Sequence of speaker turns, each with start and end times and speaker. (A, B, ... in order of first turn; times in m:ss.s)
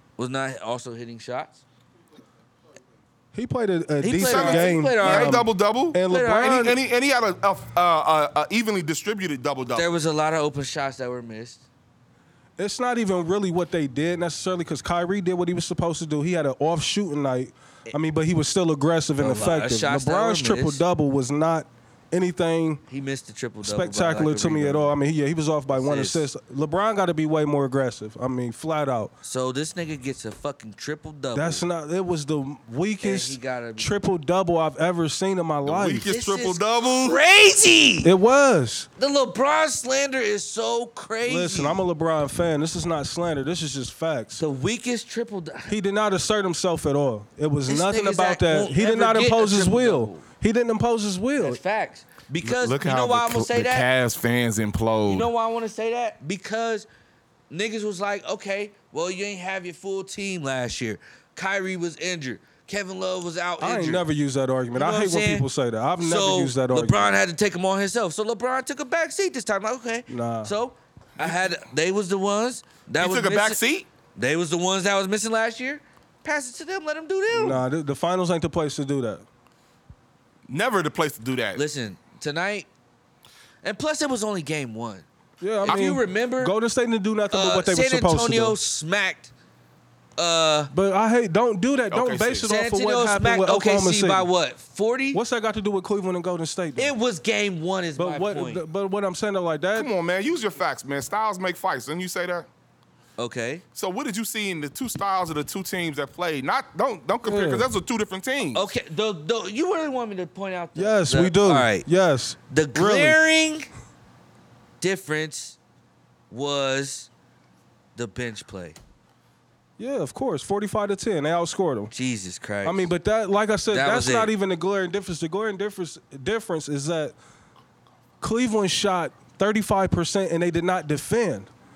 0:00.2-0:01.6 A
0:03.3-0:06.8 B
0:04.0-0:05.4 A
0:04.2-0:09.9 C
0:06.1-0:06.6 A
0:09.7-0:11.6 A
0:12.6-0:22.8 B
0:19.2-0:20.8 A
0:22.9-0:25.0 A
0:23.6-0:29.1 B
0:25.7-0:26.3 A
0:29.2-0:31.6 A
0:31.4-0:36.1 B
0:33.0-0:33.9 A
0:35.6-0:37.2 C
0:36.1-0:38.1 A
0:38.0-0:38.9 B
0:39.0-0:41.8 A
0:41.2-0:44.4 B
0:44.4-0:45.7 A
0:45.7-0:51.6 B
0:47.7-0:50.2 A
0:51.4-0:53.9 A
0:52.4-0:55.3 C
0:55.1-0:56.9 A
0:57.5-1:04.0 A
1:03.6-1:07.2 B
1:04.7-1:05.5 A
1:06.0-1:13.6 A
1:10.1-1:10.5 B
1:13.0-1:13.9 C
1:14.2-1:17.6 A
1:17.3-1:19.2 B
1:20.5-1:21.6 C
1:21.6-1:22.7 A
1:23.6-1:25.1 A
1:25.4-1:28.6 B
1:25.6-1:26.5 A
1:27.3-1:29.3 A
1:30.2-1:30.7 A
1:30.7-1:34.3 B
1:31.9-1:32.5 C
1:32.4-1:35.2 A
1:35.1-1:36.9 B
1:36.8-1:38.6 A
1:38.0-1:39.9 B
1:39.8-1:42.5 C
1:43.2-1:43.6 A
1:43.8-1:48.7 C
1:47.2-1:47.7 B
1:48.5-1:51.9 A
1:50.8-1:53.2 B
1:52.5-1:53.7 A
1:54.8-1:55.6 A
1:56.3-1:57.1 A
1:58.0-1:58.8 A
1:59.8-2:01.9 B
2:01.9-2:02.9 A
2:02.6-2:07.2 B
2:03.7-2:04.3 A
2:08.2-2:11.5 B